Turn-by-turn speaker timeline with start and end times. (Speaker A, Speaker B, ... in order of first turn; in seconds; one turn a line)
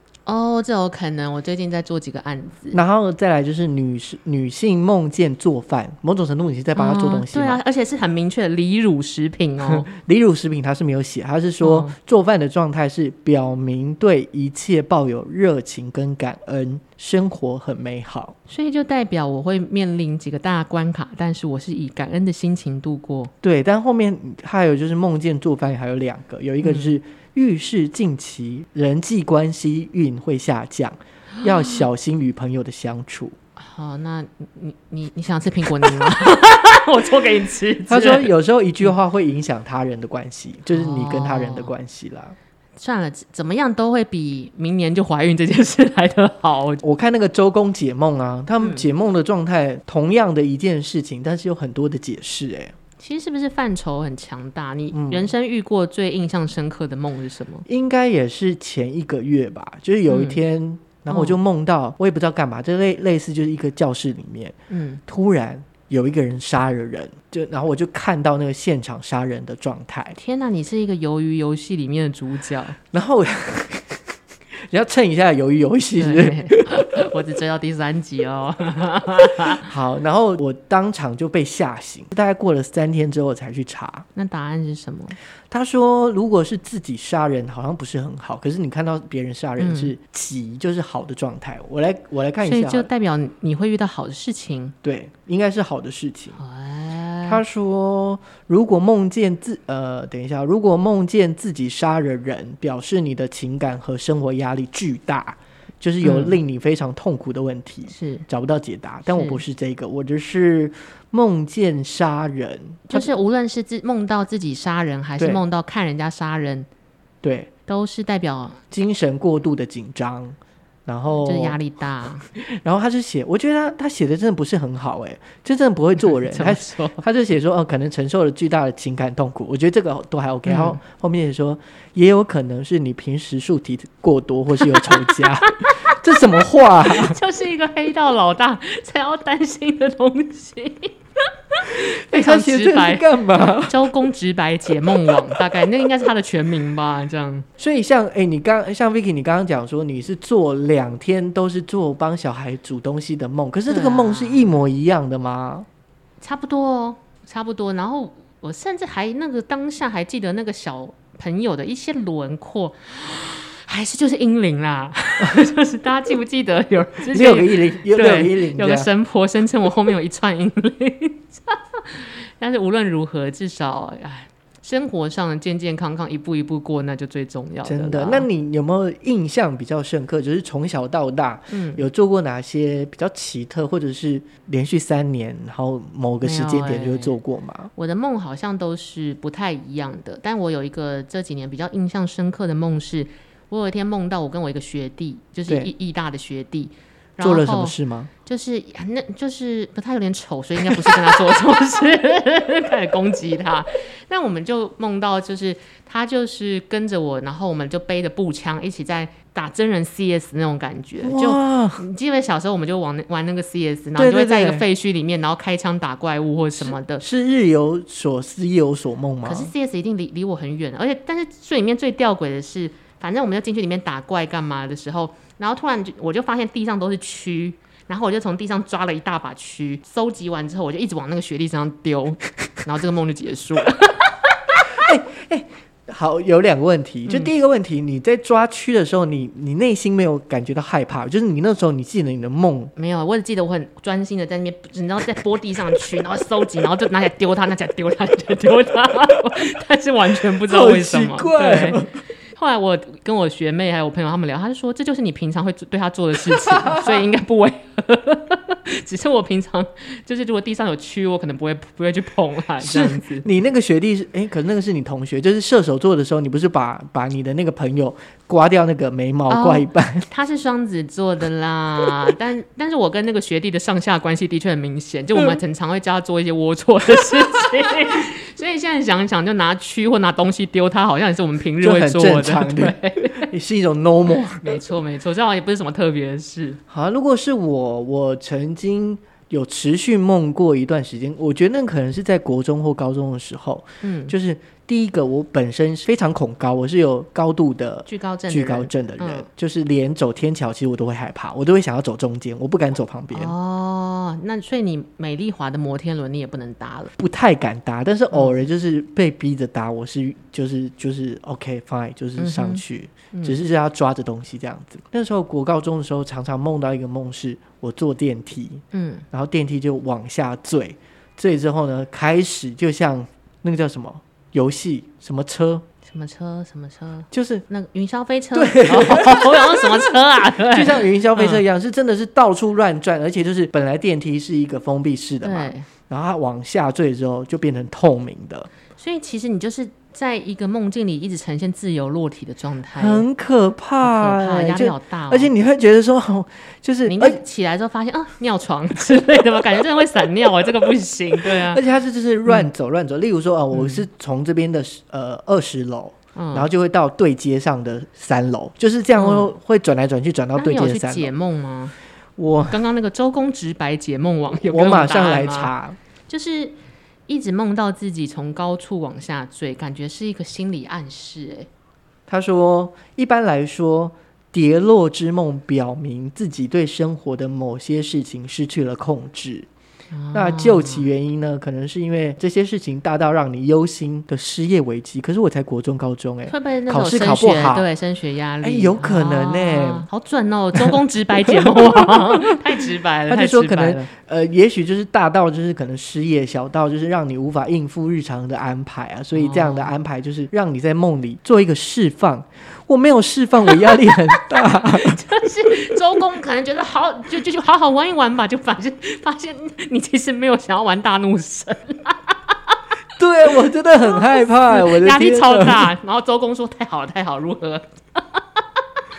Speaker A: 0.2-2.8
Speaker B: 2.7-7.6
Speaker A: 6.7-9.9
Speaker B: 9.6-18.3
Speaker A: 11.6-11.9
Speaker A: 18.5-23.3
Speaker B: 23.4-33.3
Speaker A: 26.6-27.0
Speaker A: 31.4-31.8
Speaker A: 33.6-38.3
Speaker B: 37.9-42.4
Speaker A: 40.6-41.7
Speaker A: 42.8-46.8
Speaker B: 46.8-52.7
Speaker A: 48.6-48.9
Speaker A: 53.0-57.6
Speaker B: 54.9-55.3
Speaker B: 57.7-64.5
Speaker A: 60.1-60.4
Speaker A: 61.1-61.4
Speaker A: 64.7-65.0
Speaker B: 65.1-70.2
Speaker A: 70.1-72.8
Speaker B: 72.9-74.0
Speaker B: 74.7-76.7
Speaker A: 76.0-79.6
Speaker B: 79.6-84.0
Speaker A: 84.1-85.2
Speaker B: 85.5-92.9
Speaker A: 89.6-89.9
Speaker A: 92.4-94.8
Speaker B: 94.8-96.4
Speaker A: 96.4-97.4
Speaker B: 97.2-113.1
Speaker A: 106.0-106.4
Speaker A: 107.9-108.3
Speaker A: 109.1-109.4
Speaker A: 112.9-116.7
Speaker B: 117.2-117.5
Speaker A: 117.7-118.6
Speaker B: 118.7-121.6
Speaker A: 121.2-122.2
Speaker B: 122.3-137.2
Speaker A: 126.0-127.0
Speaker A: 130.4-130.8
Speaker A: 134.6-136.0
Speaker A: 136.8-140.9
Speaker A: 141.5-147.5
Speaker B: 141.7-143.8
Speaker B: 147.6-155.7
Speaker A: 153.7-154.6
Speaker A: 156.2-178.3
Speaker B: 167.1-168.9
Speaker B: 177.6-187.7
Speaker A: 181.5-181.8
Speaker A: 186.2-187.2
Speaker A: 187.8-217.0
Speaker B: 197.2-198.1
Speaker B: 211.0-211.8
Speaker B: 213.9-214.6
Speaker B: 216.6-219.5
Speaker A: 219.2-234.5
Speaker B: 234.7-242.7
Speaker A: 237.1-237.3
Speaker A: 242.8-263.2
Speaker B: 250.4-251.9
Speaker B: 256.5-256.9
Speaker B: 262.6-270.1
Speaker A: 269.3-283.3
Speaker B: 281.6-284.6
Speaker A: 284.3-286.6
Speaker B: 286.7-303.3
Speaker A: 293.8-294.1
Speaker A: 297.9-299.3
Speaker A: 303.1-306.9
Speaker B: 307.0-325.6
Speaker A: 308.1-308.4
Speaker A: 312.2-313.4
Speaker A: 318.7-319.1
Speaker A: 325.9-331.4
Speaker B: 327.1-327.4
Speaker B: 328.3-329.9
Speaker B: 330.5-338.5
Speaker A: 335.2-335.7
Speaker A: 338.8-343.1
Speaker B: 342.8-347.2
Speaker A: 343.8-345.3
Speaker A: 346.8-351.6
Speaker B: 351.3-361.1
Speaker A: 353.5-353.8
Speaker A: 356.1-356.5
Speaker A: 358.9-359.3
Speaker A: 360.4-361.7
Speaker B: 362.2-362.6
Speaker A: 362.5-365.5
Speaker B: 364.4-365.8
Speaker A: 366.1-366.6
Speaker A: 367.1-371.5
Speaker B: 372.1-379.5
Speaker A: 379.9-380.9
Speaker B: 380.1-387.7
Speaker A: 386.3-393.9
Speaker B: 388.4-389.9
Speaker B: 393.1-405.0
Speaker A: 399.1-399.7
Speaker A: 403.5-412.6
Speaker B: 412.9-415.7
Speaker A: 413.8-418.4